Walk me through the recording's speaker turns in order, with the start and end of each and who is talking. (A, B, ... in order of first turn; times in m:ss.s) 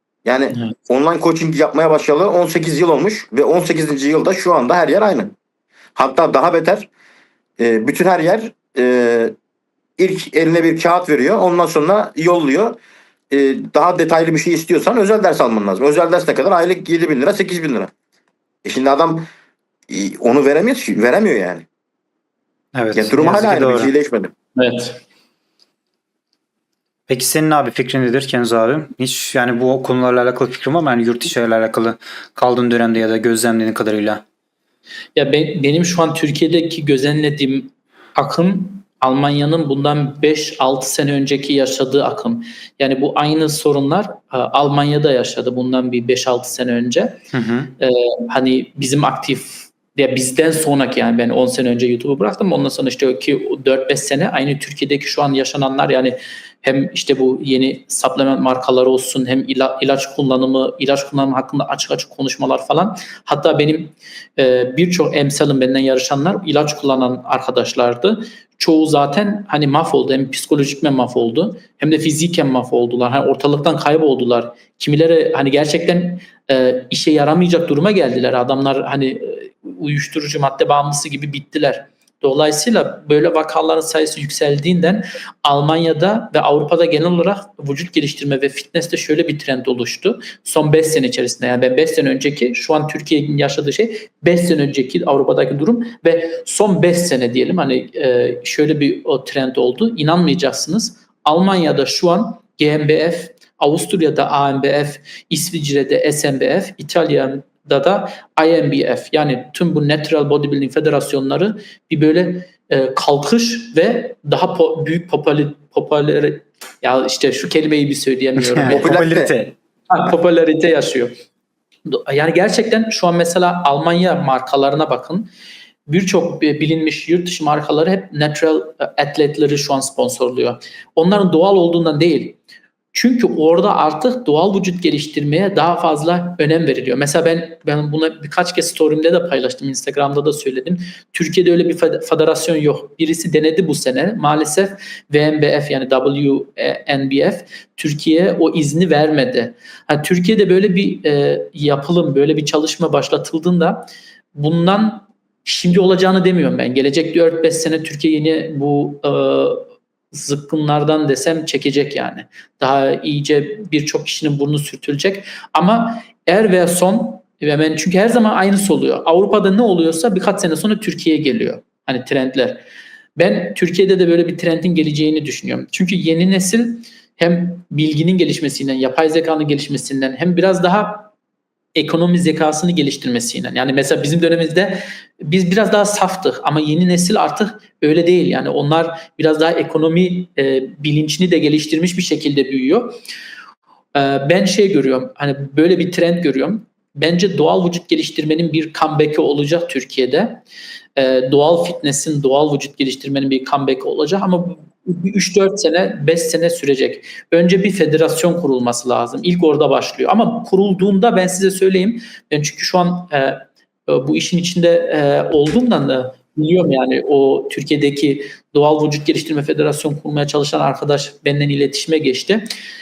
0:00.2-0:05.3 A
0:06.0-0:06.9 A
0:07.6-0:09.3 A
0:10.0-0:12.8 A
0:13.3-0:17.9 A
0:18.6-0:19.2 A
0:19.9-0:21.6 A
0:22.7-0:23.9 B
0:22.9-0:24.3 A
0:24.6-0:25.0 C
0:27.1-0:34.2 B
0:35.2-0:47.2 C
0:47.3-0:47.7 B
0:47.8-1:59.0 C
1:58.4-1:59.5 B
1:58.6-1:59.3 A
1:59.9-2:01.1 C
2:01.8-2:05.3 C
2:05.9-2:12.4 C
2:12.9-2:52.6 C
2:53.2-3:01.1 C
3:01.7-3:13.0 C
3:13.9-3:20.4 C
3:21.0-3:42.4 C